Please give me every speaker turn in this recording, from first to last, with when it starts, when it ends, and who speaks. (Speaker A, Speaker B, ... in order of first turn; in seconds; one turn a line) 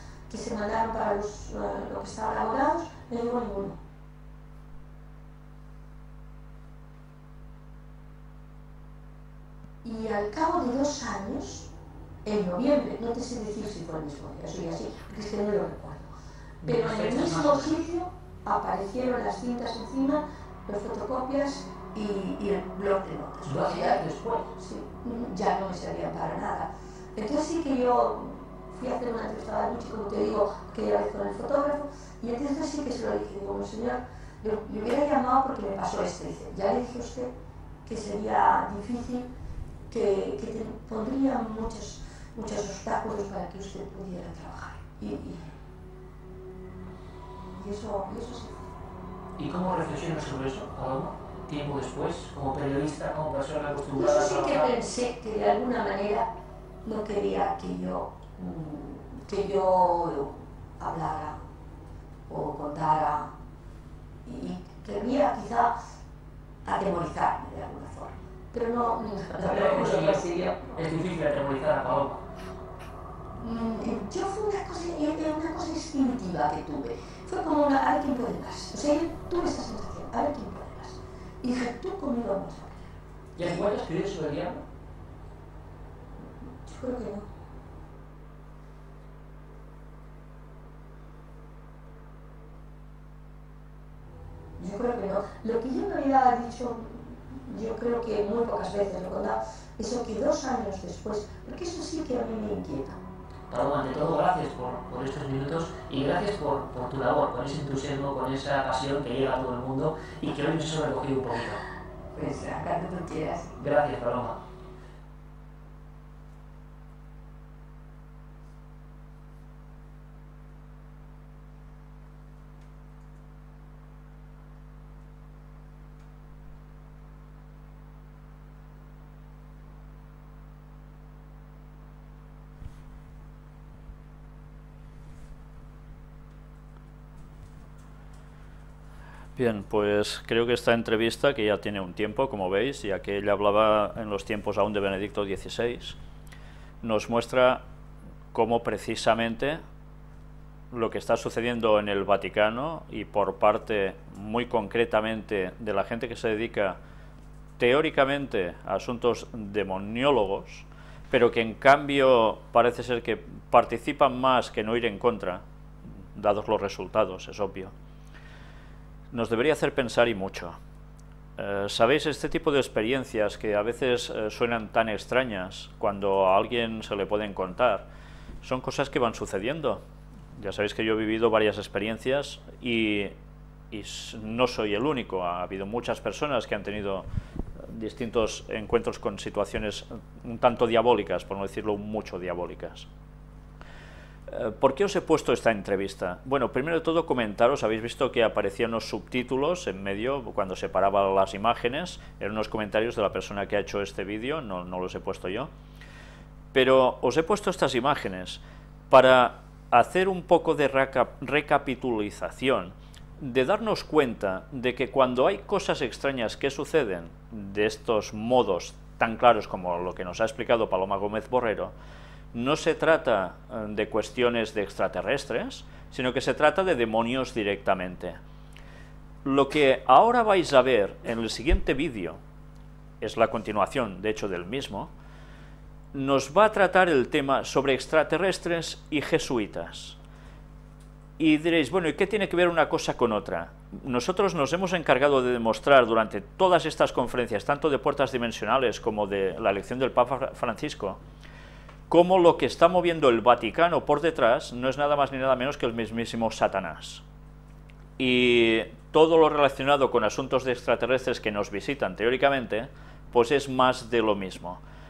Speaker A: 0.3-3.8
Speaker A: 9.8-11.7
Speaker A: 12.2-37.3
Speaker B: 16.6-17.8
Speaker B: 23.4-24.4
Speaker A: 37.8-39.3
Speaker A: 39.9-45.5
Speaker A: 47.5-48.7
Speaker B: 49.4-54.7
Speaker A: 53.9-56.2
Speaker A: 56.8-61.4
Speaker A: 62.3-63.3
Speaker A: 64.2-65.7
Speaker A: 66.6-70.8
Speaker B: 69.5-70.2
Speaker B: 70.8-72.2
Speaker A: 73.4-83.6
Speaker B: 83.3-84.6
Speaker A: 86.6-87.2
Speaker A: 94.6-103.0
Speaker B: 103.5-111.6
Speaker A: 112.1-113.6
Speaker B: 113.6-114.4
Speaker C: 139.3-146.0
Speaker C: 146.8-147.6
Speaker C: 148.3-149.6
Speaker C: 150.7-156.8
Speaker C: 157.6-165.4
Speaker C: 166.1-167.7
Speaker C: 169.1-170.6
Speaker C: 171.4-177.9
Speaker C: 178.4-179.8
Speaker C: 180.3-183.1
Speaker C: 183.7-187.1
Speaker C: 187.7-192.9
Speaker C: 194.3-205.5
Speaker C: 206.5-221.7
Speaker C: 222.3-228.2
Speaker C: 229.2-232.2
Speaker C: 233.0-234.9
Speaker C: 235.9-240.0
Speaker C: 241.2-251.0
Speaker C: 251.9-257.0
Speaker C: 258.0-264.6